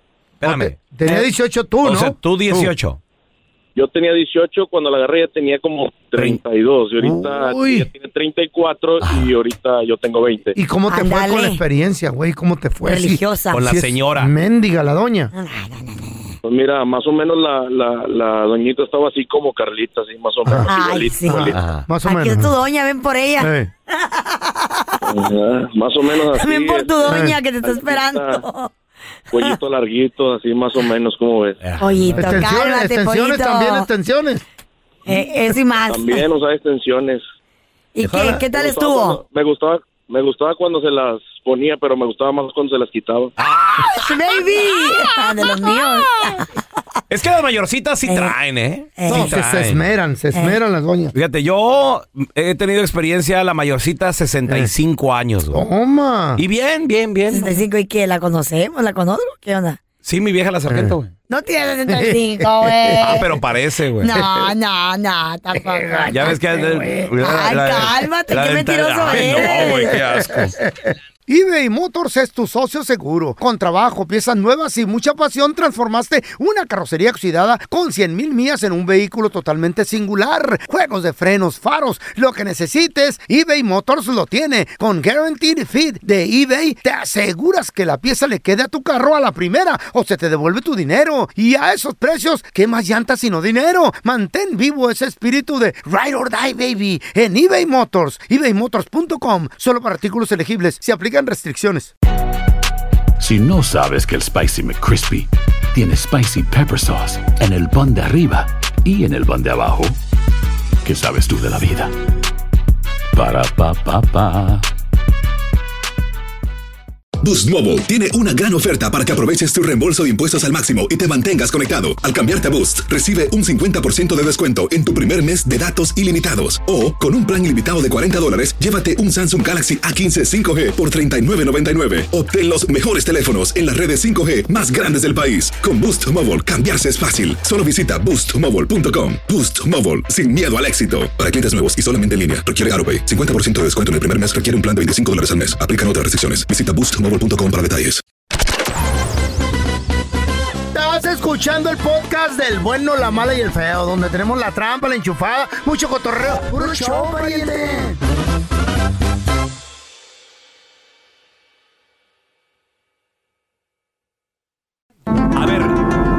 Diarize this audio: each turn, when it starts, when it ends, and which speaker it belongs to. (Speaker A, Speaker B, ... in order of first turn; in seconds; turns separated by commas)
Speaker A: 0.4-1.3, Speaker B: 0.4-2.7, Speaker A: 1.8-3.0, Speaker C: 3.8-10.6, Speaker A: 6.2-6.4, Speaker B: 7.0-7.9, Speaker B: 10.6-15.3, Speaker D: 10.9-11.6, Speaker D: 12.8-13.6, Speaker A: 13.5-14.3, Speaker D: 15.3-16.4, Speaker C: 16.4-21.6, Speaker B: 20.5-20.7, Speaker D: 20.6-21.5, Speaker B: 21.3-22.5, Speaker A: 21.5-21.9, Speaker D: 22.1-25.0, Speaker B: 23.4-23.7, Speaker C: 25.1-28.4, Speaker D: 26.3-28.7, Speaker B: 27.1-27.4, Speaker C: 29.3-31.6, Speaker A: 31.6-32.4, Speaker D: 31.8-33.9, Speaker B: 32.1-34.4, Speaker D: 35.1-36.2, Speaker C: 35.9-37.2, Speaker D: 38.0-39.2, Speaker B: 38.1-38.4, Speaker C: 38.4-43.3, Speaker A: 43.4-44.1, Speaker D: 43.9-46.5, Speaker A: 47.1-49.8, Speaker D: 48.1-48.3, Speaker D: 49.0-49.3, Speaker B: 49.1-51.1, Speaker A: 51.1-55.6, Speaker B: 55.5-56.4, Speaker A: 56.4-57.6, Speaker D: 57.3-59.8, Speaker A: 60.0-61.1, Speaker D: 61.3-63.3, Speaker B: 61.9-63.2, Speaker A: 63.0-64.2, Speaker D: 64.0-66.4, Speaker B: 64.2-64.4, Speaker B: 65.6-67.1, Speaker A: 66.1-70.6, Speaker D: 67.2-70.0, Speaker B: 69.4-101.9, Speaker E: 103.2-110.0, Speaker E: 110.8-111.9, Speaker E: 113.1-114.7, Speaker F: 117.2-148.0, Speaker B: 150.7-158.0, Speaker A: 165.3-165.8